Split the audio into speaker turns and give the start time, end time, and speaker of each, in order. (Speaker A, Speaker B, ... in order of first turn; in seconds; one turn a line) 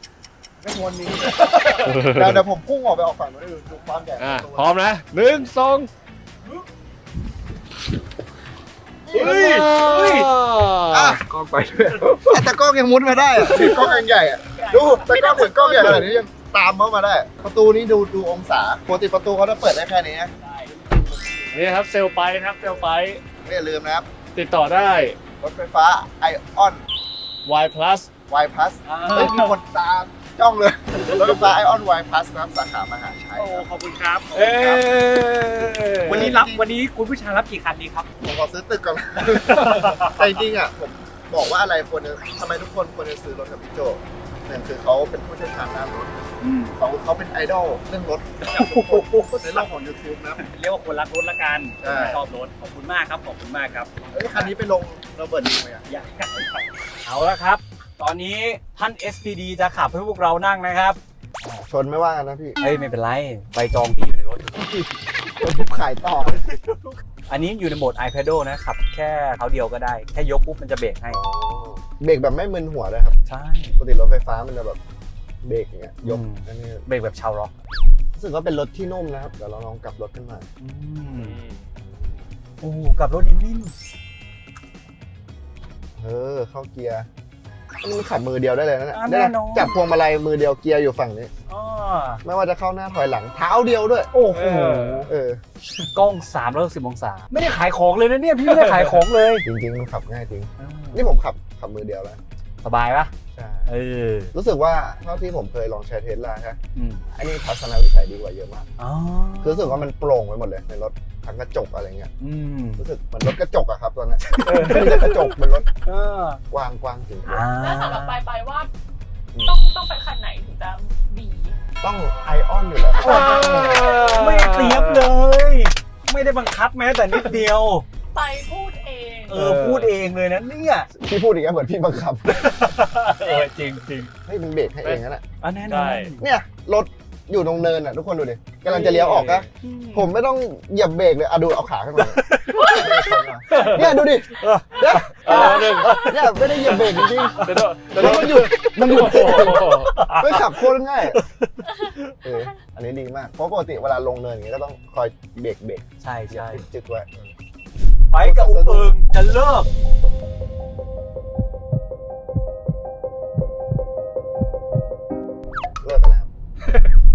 Speaker A: 0.6-2.2
Speaker B: 1.8-2.4
Speaker C: 1.9-4.8
Speaker B: 4.2-5.9
Speaker A: 9.1-10.3
Speaker B: 9.1-11.2
Speaker C: 10.9-11.2
Speaker A: 11.3-12.2
Speaker B: 11.9-12.2
Speaker C: 12.0-20.3
Speaker A: 13.4-16.1
Speaker A: 20.4-21.8
Speaker B: 21.5-23.2
Speaker C: 23.4-24.1
Speaker B: 24.3-25.2
Speaker C: 25.4-26.8
Speaker B: 27.4-28.1
Speaker C: 28.3-33.7
Speaker A: 28.9-29.5
Speaker A: 33.4-34.9
Speaker B: 34.3-36.3
Speaker A: 36.0-38.1
Speaker C: 36.0-36.7
Speaker C: 38.2-50.5
Speaker A: 39.5-40.2
Speaker B: 39.5-39.9
Speaker A: 46.4-46.7
Speaker A: 48.5-49.7
Speaker A: 50.4-54.5
Speaker C: 51.8-52.2
Speaker C: 54.1-55.9
Speaker A: 55.9-61.0
Speaker C: 61.4-62.6
Speaker D: 62.6-63.0
Speaker A: 62.6-64.9
Speaker C: 65.4-66.4
Speaker A: 66.3-71.2
Speaker C: 71.1-73.2
Speaker A: 73.3-73.8
Speaker C: 73.8-74.8
Speaker C: 75.4-76.8
Speaker A: 76.0-77.5
Speaker C: 78.1-80.5
Speaker A: 80.6-81.4
Speaker B: 81.1-81.7
Speaker C: 81.8-82.2
Speaker A: 82.6-83.7
Speaker C: 86.0-87.1
Speaker C: 87.8-91.3
Speaker A: 88.9-89.7
Speaker A: 91.5-92.2
Speaker C: 92.2-94.1
Speaker A: 94.1-95.1
Speaker B: 94.3-95.1
Speaker C: 95.1-95.4
Speaker A: 95.8-99.4
Speaker B: 98.6-98.9
Speaker C: 99.4-102.2
Speaker A: 100.6-101.0
Speaker A: 102.6-103.1
Speaker C: 103.3-103.7
Speaker A: 103.7-104.3
Speaker C: 104.3-106.6
Speaker A: 106.7-107.0
Speaker C: 107.1-108.7
Speaker A: 108.8-109.8
Speaker C: 109.4-112.1
Speaker A: 112.2-112.8
Speaker C: 112.8-115.7
Speaker A: 114.2-115.2
Speaker B: 114.5-115.2
Speaker A: 115.8-116.4
Speaker C: 116.5-117.4
Speaker A: 117.2-118.2
Speaker D: 117.6-118.7
Speaker C: 119.3-119.6
Speaker D: 119.4-121.5
Speaker C: 121.8-123.9
Speaker B: 123.0-125.1
Speaker A: 123.0-127.8
Speaker D: 128.1-129.4
Speaker A: 129.3-130.9
Speaker B: 129.3-129.9
Speaker C: 130.9-132.5
Speaker A: 132.3-134.1
Speaker C: 134.2-135.2
Speaker A: 135.4-136.2
Speaker B: 135.7-136.1
Speaker C: 136.2-151.2
Speaker B: 138.7-139.5
Speaker A: 139.6-140.1
Speaker A: 142.0-143.0
Speaker D: 142.6-143.1
Speaker B: 143.5-143.9
Speaker A: 143.5-148.3
Speaker B: 145.2-146.1
Speaker B: 147.4-150.0
Speaker A: 148.9-151.7
Speaker C: 152.2-157.3
Speaker A: 156.0-156.6
Speaker A: 158.1-159.7
Speaker C: 158.2-158.9
Speaker C: 165.8-166.3
Speaker B: 166.6-166.9